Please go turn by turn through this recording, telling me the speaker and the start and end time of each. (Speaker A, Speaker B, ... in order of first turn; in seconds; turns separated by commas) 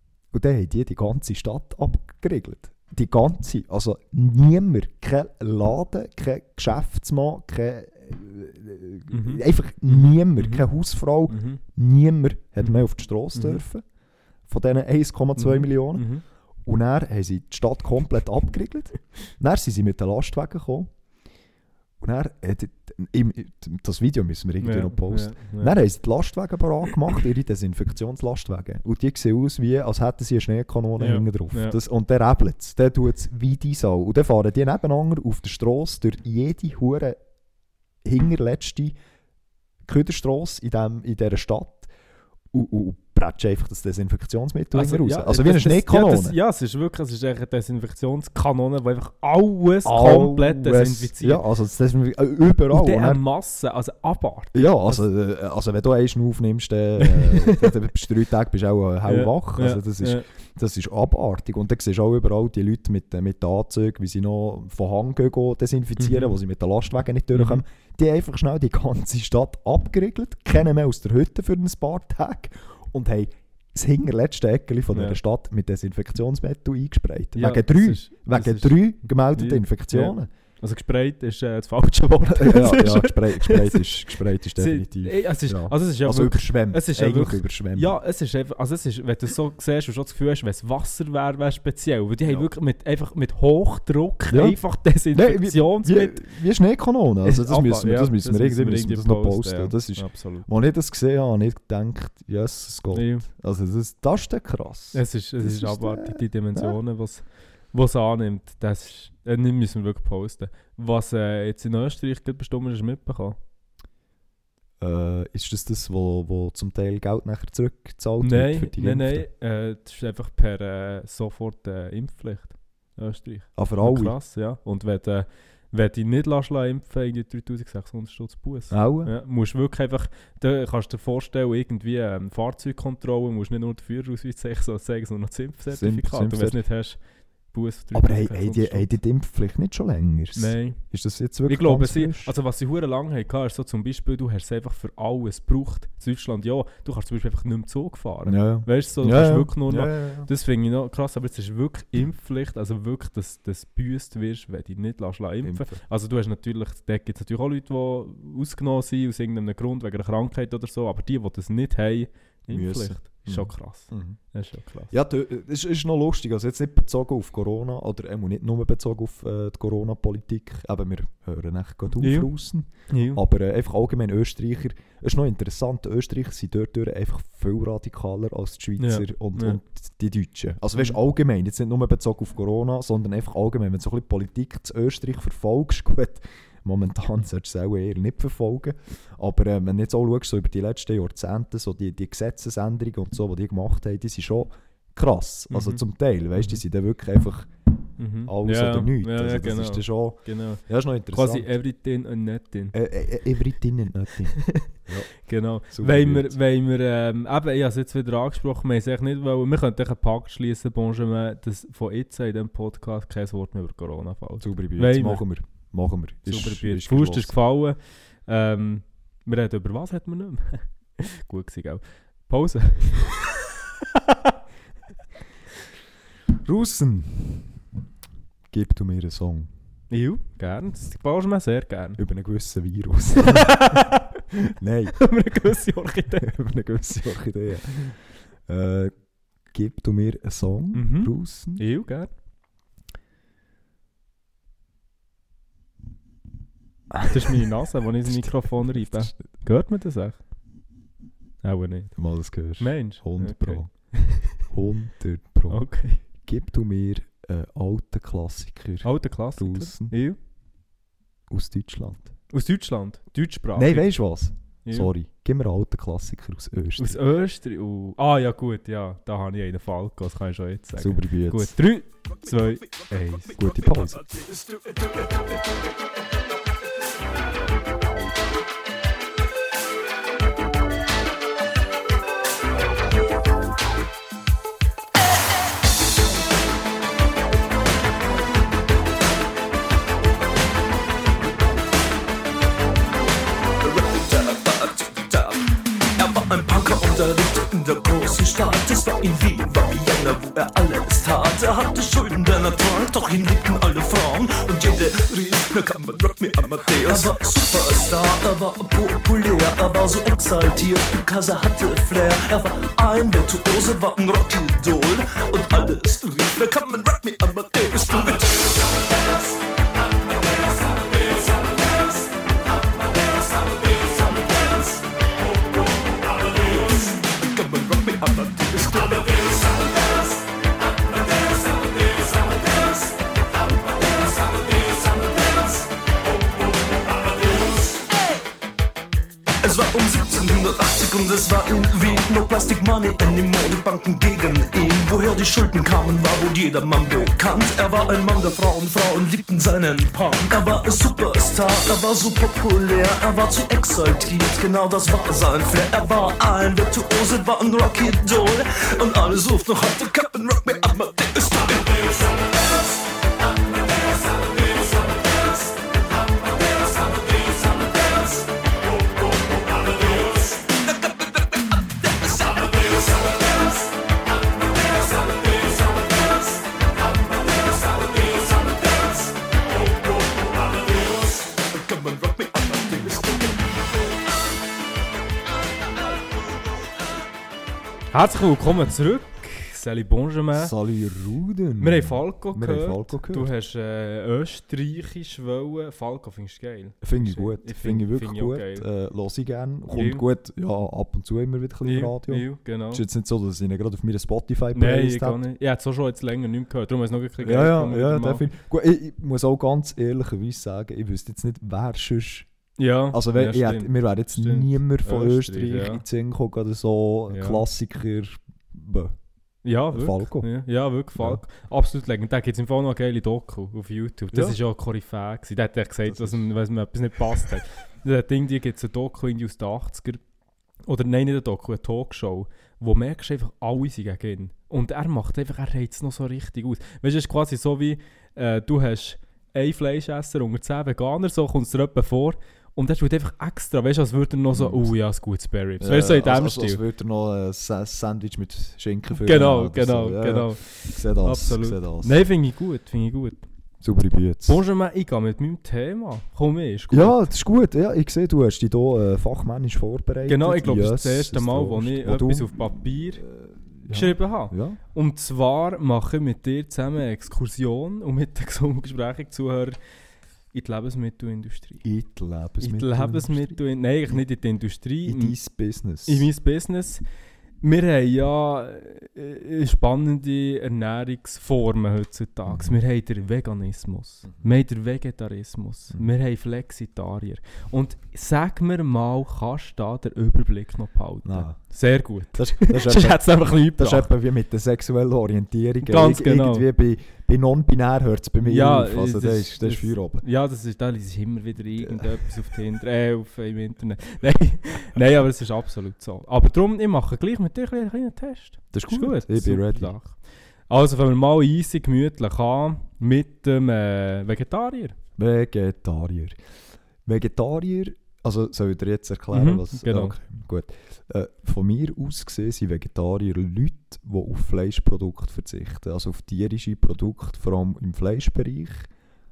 Speaker A: 0.3-13.8, Speaker B: 9.1-10.6, Speaker B: 11.3-11.6, Speaker B: 13.3-13.6, Speaker A: 14.5-16.1, Speaker B: 15.4-16.2, Speaker A: 16.6-20.9, Speaker A: 22.0-37.2, Speaker B: 24.6-25.7, Speaker B: 31.0-31.8, Speaker A: 38.0-38.9, Speaker A: 39.9-41.9, Speaker A: 42.5-46.4, Speaker B: 44.7-51.4, Speaker A: 49.8-53.2, Speaker B: 52.7-55.0, Speaker A: 54.5-80.3, Speaker B: 57.0-57.7, Speaker B: 59.1-60.2, Speaker B: 66.0-66.3, Speaker B: 67.3-67.6, Speaker B: 74.9-75.2, Speaker B: 77.3-78.8, Speaker B: 79.3-96.3, Speaker A: 82.3-88.0, Speaker A: 94.3-94.6, Speaker A: 95.1-106.8, Speaker B: 97.2-100.5, Speaker B: 102.9-103.3, Speaker B: 104.9-113.4, Speaker A: 114.8-119.3, Speaker B: 118.2-138.9, Speaker A: 123.6-124.2, Speaker A: 128.7-129.1, Speaker A: 135.7-136.6, Speaker A: 137.9-142.3, Speaker B: 140.4-140.8, Speaker B: 141.5-164.9, Speaker A: 148.2-150.3, Speaker A: 155.4-155.8, Speaker A: 162.5-164.2, Speaker A: 164.9-197.5, Speaker B: 172.0-172.3, Speaker B: 172.9-173.2, Speaker B: 178.8-179.6, Speaker B: 195.5-195.8, Speaker B: 196.4-196.6, Speaker B: 198.0-202.7, Speaker A: 198.2-201.5, Speaker A: 202.7-206.4, Speaker B: 204.4-215.2, Speaker A: 214.4-217.3, Speaker B: 216.3-224.3, Speaker A: 226.4-227.6, Speaker A: 228.5-229.5, Speaker B: 229.9-232.0, Speaker A: 232.0-233.9, Speaker B: 233.2-234.1, Speaker A: 234.5-235.0, Speaker B: 235.0-236.3, Speaker A: 236.2-238.9, Speaker A: 239.5-241.6, Speaker B: 240.7-242.1, Speaker A: 246.9-247.4, Speaker B: 247.1-250.2, Speaker A: 248.1-249.2, Speaker B: 251.4-251.9, Speaker A: 251.9-259.9, Speaker B: 252.6-254.4, Speaker B: 255.5-256.0, Speaker B: 258.8-260.2, Speaker A: 261.3-262.1, Speaker B: 262.3-263.9, Speaker A: 263.6-267.0, Speaker B: 264.6-264.9, Speaker B: 266.8-273.4, Speaker A: 270.8-271.5, Speaker A: 273.4-274.0, Speaker C: 293.6-318.7, Speaker C: 320.7-321.6, Speaker C: 323.2-324.8, Speaker C: 326.3-329.8, Speaker C: 331.8-332.7, Speaker C: 334.2-335.4, Speaker C: 339.4-362.2, Speaker C: 364.6-365.1, Speaker C: 370.0-370.4, Speaker C: 372.2-373.1, Speaker C: 377.8-378.5, Speaker C: 381.2-383.6, Speaker B: 387.9-390.5, Speaker A: 390.3-393.3, Speaker B: 391.6-398.6, Speaker A: 396.8-405.2, Speaker B: 399.7-400.0, Speaker B: 401.6-402.8, Speaker B: 404.5-408.2, Speaker A: 407.2-412.3, Speaker B: 412.6-415.8, Speaker A: 412.9-419.0, Speaker B: 417.1-417.4, Speaker B: 419.4-430.0, Speaker A: 419.7-420.3, Speaker A: 421.0-421.2, Speaker A: 424.1-424.4, Speaker A: 425.9-426.2, Speaker B: 430.6-446.6, Speaker A: 444.3-444.7, Speaker A: 445.6-452.1, Speaker B: 448.9-453.2, Speaker A: 453.6-454.4, Speaker B: 454.2-457.0, Speaker A: 456.7-464.6, Speaker B: 460.0-463.0, Speaker B: 463.7-469.6, Speaker B: 470.3-471.6, Speaker A: 471.6-473.4, Speaker B: 472.4-475.1, Speaker A: 474.9-476.1, Speaker B: 475.9-476.8, Speaker B: 477.4-493.9, Speaker A: 482.3-482.5, Speaker A: 491.0-491.4, Speaker A: 492.1-500.0, Speaker B: 495.6-496.5, Speaker B: 498.2-514.8, Speaker A: 501.6-502.1, Speaker A: 508.5-509.7, Speaker A: 515.0-516.1, Speaker A: 516.9-528.7, Speaker B: 519.1-520.0